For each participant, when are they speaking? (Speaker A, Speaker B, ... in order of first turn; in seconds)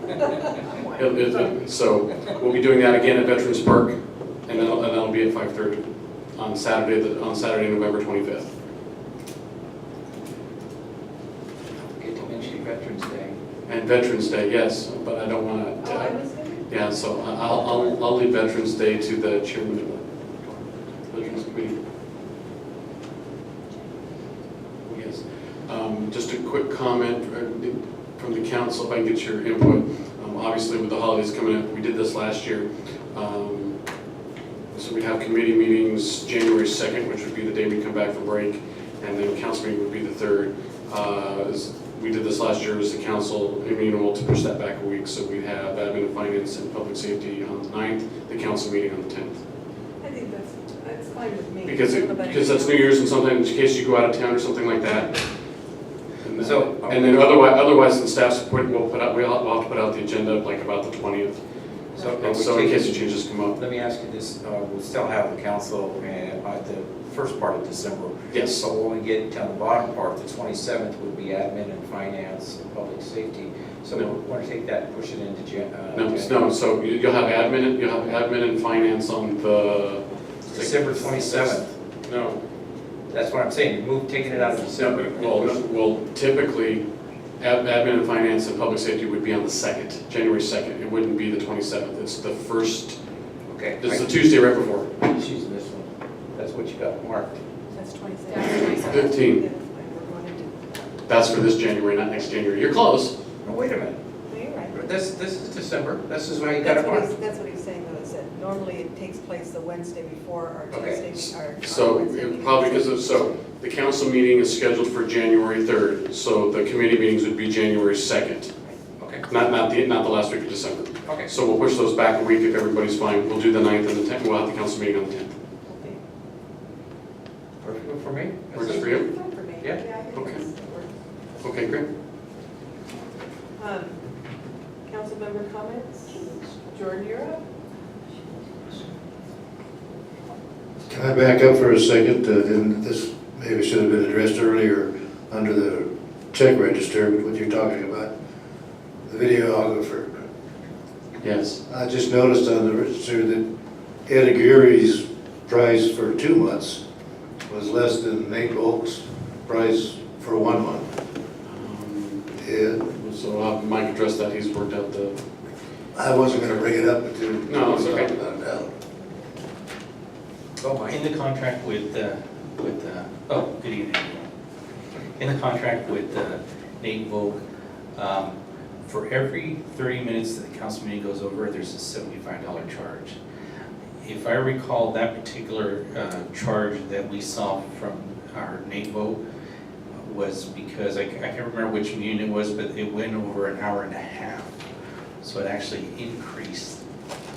Speaker A: 0.9-8.5, 13.7-20.1, 21.1-21.8, 24.9-33.8, 34.7-49.4, 51.6-55.2, 56.2-61.4, 62.0-63.6, 68.3-68.6, 75.9-82.4, 84.8-86.8, 87.4-93.0, 93.8-95.0, 98.8-99.4, 101.0-103.1, 111.1-118.5, 119.3-125.3, 128.5-129.1, 130.1-130.4, 131.4-131.8, 151.2-151.6, 161.4-162.3, 162.8-165.2, 166.3-166.6, 167.5-168.1
Speaker B: 1.1-1.4, 15.8-16.7, 17.7-18.0, 50.0-53.0, 97.7-101.0, 104.2-104.9, 106.6-113.3, 125.7-126.0, 128.9-130.9, 133.6-134.0, 134.8-137.4
Speaker C: 11.8-13.4, 56.4-57.4, 61.9-76.5, 80.5-81.7, 83.1-85.6, 93.5-94.1, 95.0-97.4, 103.4-104.0, 104.7-107.1, 110.7-111.1, 119.0-119.2, 121.0-121.3, 127.6-128.8, 170.6-171.1
Speaker D: 140.9-148.1, 149.1-150.1, 151.7-153.4, 154.1-156.8, 157.4-160.9, 162.4-162.8, 165.9-168.7
Speaker E: 170.9-174.3, 175.2-177.4, 177.9-183.2, 184.0-189.2, 189.9-194.6, 195.2-196.8